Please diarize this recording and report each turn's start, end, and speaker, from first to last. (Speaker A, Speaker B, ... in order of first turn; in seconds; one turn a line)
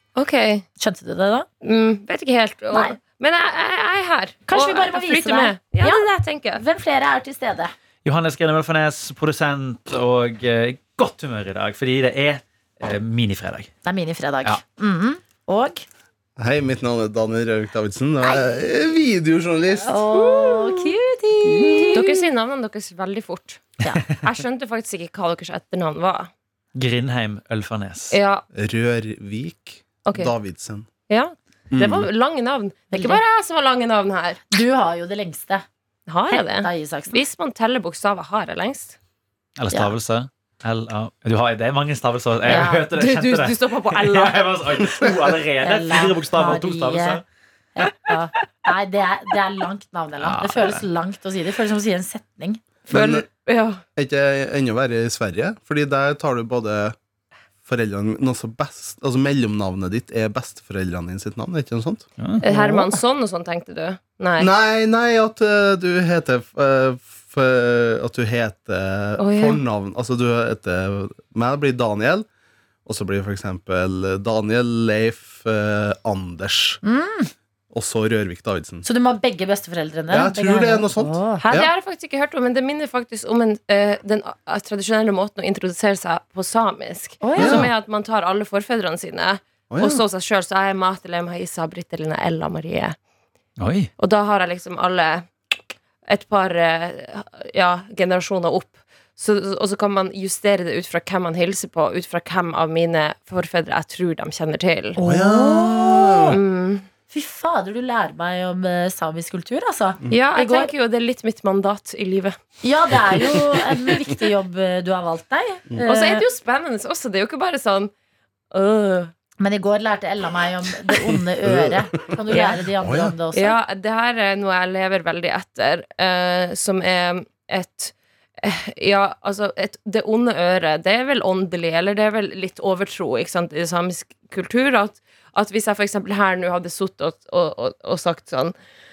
Speaker A: 0.1-0.7
Speaker B: 0.8-1.5
Speaker A: 1.6-6.6
Speaker B: 4.5-7.7
Speaker C: 8.0-13.7
Speaker B: 13.8-15.8
Speaker D: 16.4-20.0
Speaker B: 19.8-22.2
Speaker A: 20.1-26.3
Speaker C: 26.7-28.1
Speaker A: 28.1-28.4
Speaker D: 28.5-30.9
Speaker A: 30.1-30.3
Speaker A: 31.1-34.4
Speaker D: 31.7-32.1
Speaker B: 32.9-33.2
Speaker B: 34.5-35.6
Speaker A: 36.1-39.0
Speaker B: 36.3-37.2
Speaker C: 39.6-47.2
Speaker B: 42.4-42.8
Speaker A: 42.5-44.4
Speaker D: 45.0-45.4
Speaker B: 45.6-47.2
Speaker B: 47.8-52.6
Speaker C: 50.2-50.8
Speaker A: 52.9-53.8
Speaker D: 52.9-53.2
Speaker D: 54.0-57.0
Speaker D: 57.6-62.1
Speaker A: 62.4-64.5
Speaker B: 62.4-63.0
Speaker D: 64.4-72.2
Speaker A: 69.2-69.6
Speaker D: 72.8-76.8
Speaker B: 76.8-77.3
Speaker D: 77.7-78.8
Speaker B: 78.8-81.4
Speaker D: 80.1-81.7
Speaker A: 81.4-93.0
Speaker B: 87.2-87.7
Speaker D: 87.4-87.7
Speaker D: 89.7-90.0
Speaker C: 93.6-93.9
Speaker A: 94.0-95.3
Speaker A: 96.1-105.0
Speaker B: 105.0-106.4
Speaker D: 105.0-106.3
Speaker A: 106.3-106.8
Speaker B: 107.1-110.7
Speaker A: 110.1-112.3
Speaker B: 112.6-116.2
Speaker A: 115.9-117.9
Speaker A: 118.5-119.1
Speaker B: 119.4-123.6
Speaker D: 121.4-121.8
Speaker A: 122.3-122.6
Speaker D: 122.8-123.1
Speaker A: 123.3-138.5